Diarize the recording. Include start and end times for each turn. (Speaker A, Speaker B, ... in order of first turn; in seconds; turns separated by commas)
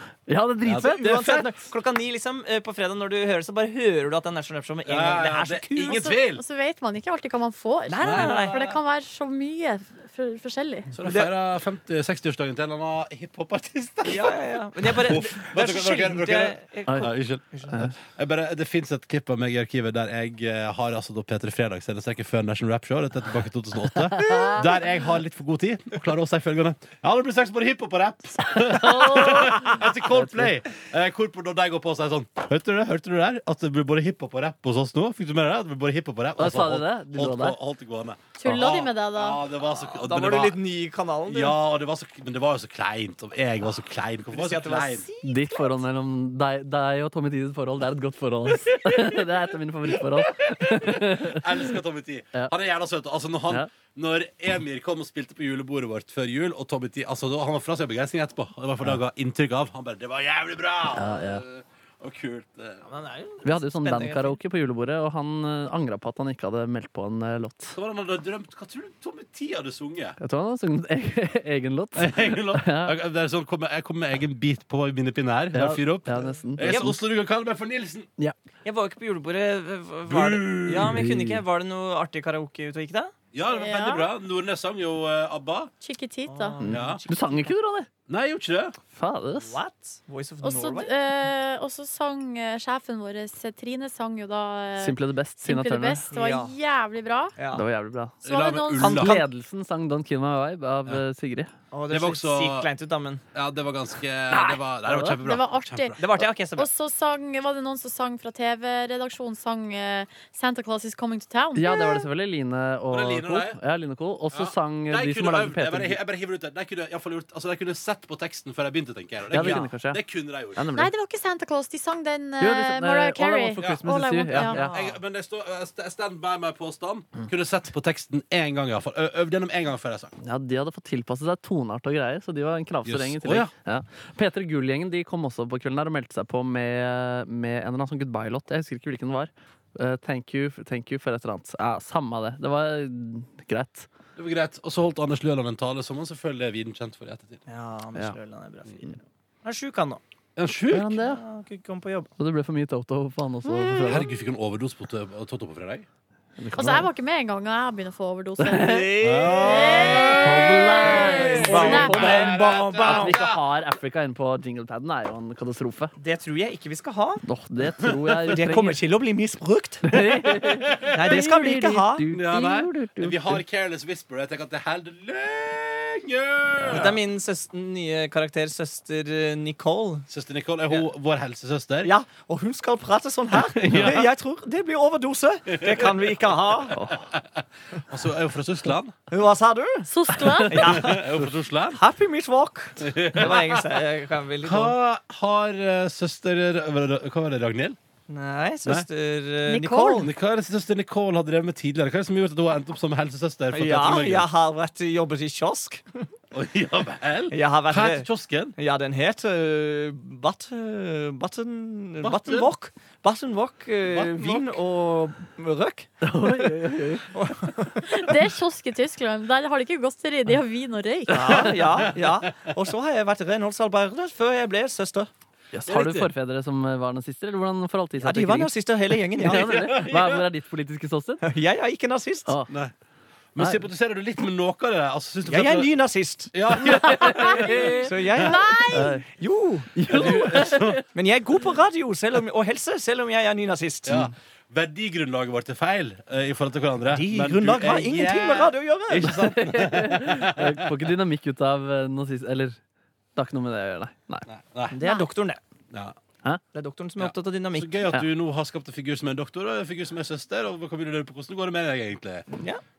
Speaker A: 0.3-1.1, Speaker B: 0.6-1.4, Speaker C: 0.8-6.1, Speaker B: 4.8-6.4, Speaker D: 5.9-10.9, Speaker C: 7.9-8.7, Speaker B: 8.0-8.7, Speaker B: 10.9-17.4, Speaker C: 11.0-11.3, Speaker C: 14.1-17.9, Speaker A: 17.7-17.9, Speaker B: 18.0-40.6, Speaker A: 29.0-30.6, Speaker A: 36.4-37.6, Speaker D: 38.4-39.4, Speaker C: 39.7-41.6, Speaker B: 41.3-45.0, Speaker C: 44.3-45.7, Speaker A: 45.2-51.3, Speaker B: 50.6-62.8, Speaker A: 60.9-61.4, Speaker C: 62.8-64.4, Speaker A: 63.4-67.8, Speaker B: 67.7-70.2, Speaker A: 70.2-72.9, Speaker B: 72.0-78.1, Speaker A: 75.5-76.8, Speaker C: 76.6-76.9, Speaker C: 78.6-83.1, Speaker B: 80.1-81.0, Speaker A: 80.7-81.4, Speaker B: 83.3-85.7, Speaker D: 83.5-84.0, Speaker D: 85.8-86.6, Speaker C: 86.3-87.5, Speaker A: 86.6-87.9, Speaker B: 86.7-87.0, Speaker B: 88.1-88.8, Speaker A: 88.9-89.5, Speaker C: 89.4-90.9, Speaker D: 90.4-97.3, Speaker A: 94.8-96.0, Speaker C: 96.1-96.5, Speaker C: 97.4-97.6, Speaker A: 97.5-98.2, Speaker B: 98.2-99.1, Speaker D: 98.2-99.2, Speaker C: 98.8-99.3, Speaker A: 98.9-101.5, Speaker C: 101.7-103.2, Speaker B: 101.9-102.7, Speaker B: 103.3-106.3, Speaker A: 104.3-105.2, Speaker D: 105.2-112.1, Speaker C: 106.0-106.7, Speaker A: 111.5-116.0, Speaker B: 112.9-113.6, Speaker B: 114.3-120.7, Speaker A: 119.3-120.9, Speaker C: 119.3-119.7, Speaker D: 120.7-124.6, Speaker A: 122.4-124.7, Speaker C: 124.3-125.0, Speaker B: 124.6-130.1, Speaker A: 130.2-143.9, Speaker B: 132.8-133.5, Speaker B: 144.2-147.4, Speaker C: 147.5-150.0, Speaker B: 150.3-151.0, Speaker A: 150.7-151.2, Speaker C: 151.0-152.1, Speaker A: 152.2-154.1, Speaker B: 153.7-155.8, Speaker A: 156.4-156.9, Speaker D: 156.5-158.8, Speaker A: 158.4-158.8, Speaker C: 158.5-160.0, Speaker B: 159.0-163.4, Speaker D: 159.4-162.1, Speaker A: 160.0-165.9, Speaker C: 160.9-163.2, Speaker C: 166.0-167.2, Speaker A: 167.2-168.8, Speaker C: 168.3-169.9, Speaker A: 169.9-173.4, Speaker B: 170.2-171.2, Speaker C: 170.9-172.0, Speaker B: 172.1-177.0, Speaker C: 176.7-180.1, Speaker B: 180.1-181.9, Speaker C: 181.8-186.8, Speaker B: 183.3-184.1, Speaker B: 185.5-185.9, Speaker A: 186.7-187.1, Speaker B: 187.9-188.9, Speaker C: 189.1-194.8, Speaker D: 189.9-190.6, Speaker B: 190.6-191.8, Speaker B: 192.8-193.6, Speaker B: 194.4-197.8, Speaker C: 198.1-200.1, Speaker D: 199.4-200.1, Speaker B: 200.0-204.3, Speaker C: 203.5-206.0, Speaker B: 206.3-208.5, Speaker C: 207.3-215.9, Speaker B: 212.0-212.5, Speaker B: 213.9-214.6, Speaker A: 216.0-217.0, Speaker C: 217.1-217.9, Speaker D: 217.8-221.4, Speaker C: 221.1-225.1, Speaker B: 221.3-221.9, Speaker A: 225.5-231.2, Speaker B: 225.6-226.1, Speaker C: 228.0-229.6, Speaker B: 229.2-230.2, Speaker C: 231.2-232.3, Speaker B: 233.3-238.3, Speaker A: 233.4-233.6, Speaker C: 235.3-236.8, Speaker D: 237.0-237.3, Speaker A: 237.4-237.7, Speaker C: 237.8-244.1, Speaker D: 238.2-238.9, Speaker A: 238.7-239.1, Speaker A: 239.7-240.8, Speaker B: 239.9-240.8, Speaker B: 243.8-250.7, Speaker C: 246.9-249.2, Speaker A: 249.0-252.6, Speaker A: 253.2-254.3, Speaker B: 254.3-254.8, Speaker C: 254.7-255.4, Speaker B: 255.7-255.9, Speaker C: 256.5-257.9, Speaker B: 257.0-262.3, Speaker C: 262.3-262.6